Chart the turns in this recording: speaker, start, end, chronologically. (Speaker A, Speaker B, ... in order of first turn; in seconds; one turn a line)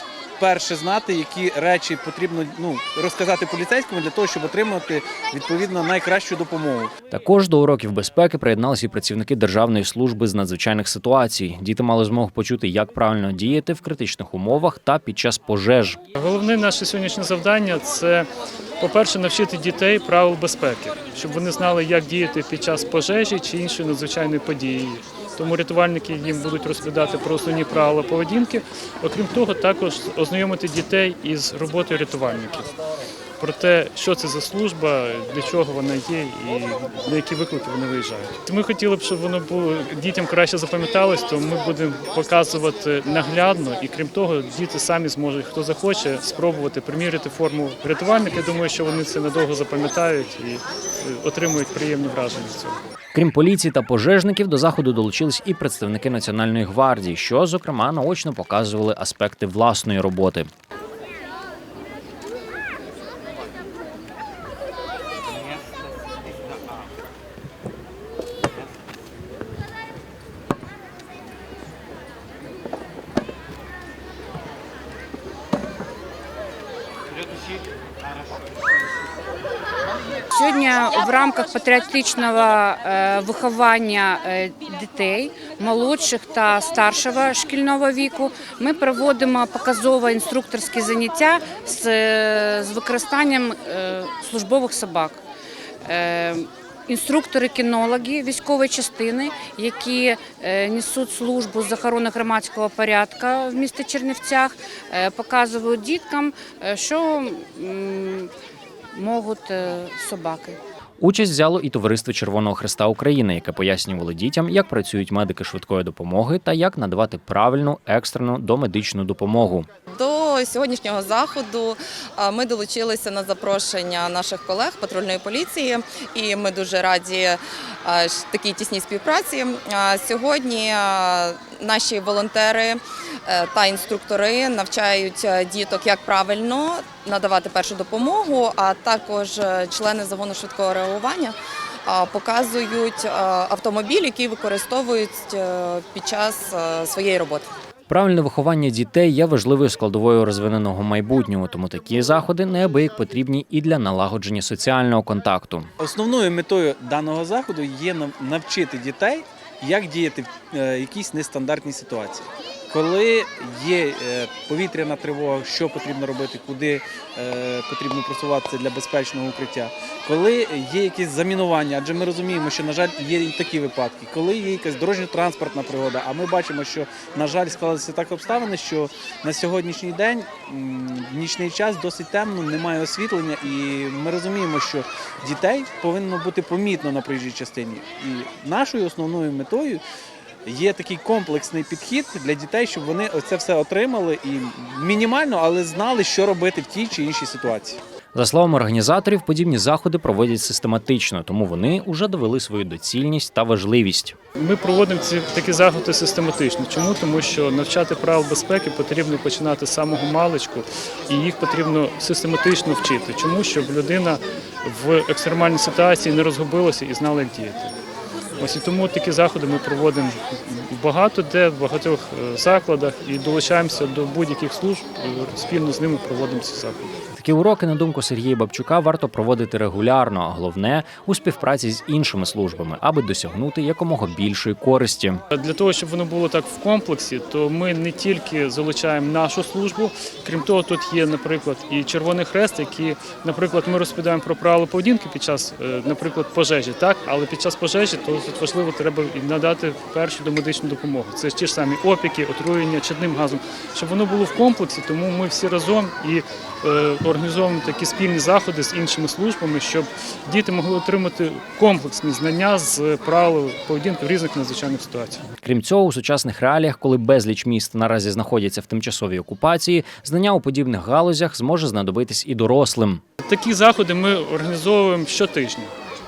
Speaker A: 0.4-6.9
Speaker B: 7.1-16.0
Speaker C: 16.2-18.3
Speaker C: 18.8-32.7
Speaker C: 33.4-52.8
Speaker B: 53.1-60.5
Speaker D: 80.3-95.2
Speaker D: 95.8-108.3
Speaker D: 108.9-110.6
Speaker B: 111.0-119.7
Speaker E: 119.9-141.3
Speaker E: 141.9-147.5
Speaker B: 147.9-155.7
Speaker A: 155.8-189.8
Speaker A: 190.4-197.8
Speaker B: 198.2-204.2
Speaker C: 204.4-217.7
Speaker C: 218.4-226.9
Speaker B: 227.2-235.2
Speaker C: 235.3-265.2
Speaker B: 265.4-273.0
Speaker C: 273.2-275.7